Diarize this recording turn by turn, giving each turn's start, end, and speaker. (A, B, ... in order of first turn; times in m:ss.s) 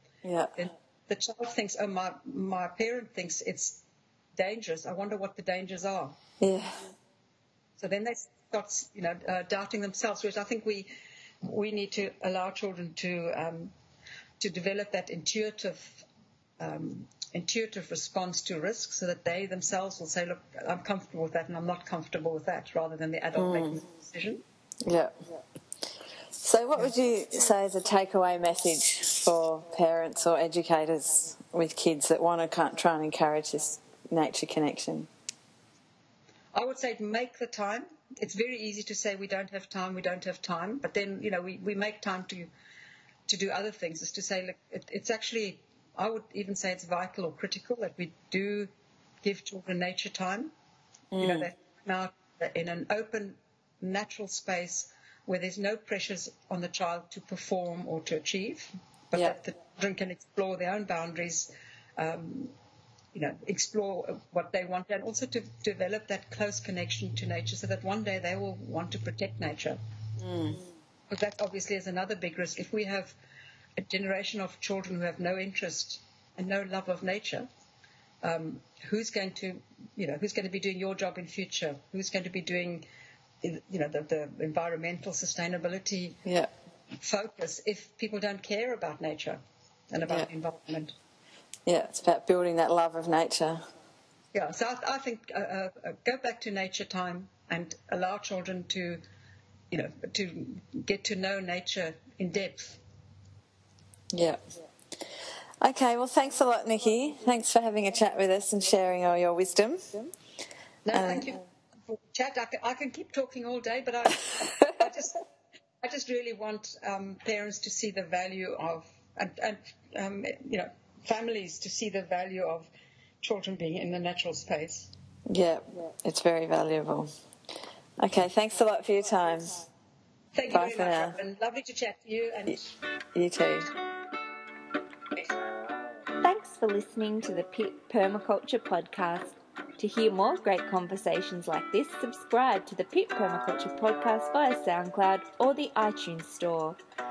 0:00.2-0:00.6 A
0:00.5-0:03.8 B
0:04.4-0:06.2 B
0:06.4-0:06.9 A
0:07.8-0:10.9 B
0:11.4-0:13.7 B
0:14.4-0:16.1 B
0:16.6-0:24.4 B
0:23.4-0:23.8 A
0:24.8-0:25.1 A
0:26.4-0:35.1 A
0:36.5-0:42.5 B
0:43.3-0:48.7 B
0:49.2-0:50.5 B
0:51.1-0:51.5 A
0:51.2-1:02.6 B
1:03.1-1:09.8 B
1:10.2-1:10.6 A
1:11.1-1:13.2 B
1:13.8-1:17.5 B
1:18.2-1:22.8 B
1:23.4-1:26.2 B
1:26.2-1:26.5 A
1:27.0-1:29.4 B
1:29.9-1:30.9 B
1:31.7-1:33.6 A
1:34.3-1:39.0 B
1:39.7-1:42.8 B
1:44.1-1:44.4 A
1:45.6-1:49.9 A
1:50.9-1:55.2 B
1:50.9-1:51.3 A
1:55.8-2:02.7 B
2:03.2-2:04.9 B
2:05.3-2:07.1 A
2:08.0-2:09.7 A
2:10.4-2:12.7 B
2:10.5-2:11.2 A
2:13.1-2:13.7 A
2:16.2-2:26.8 C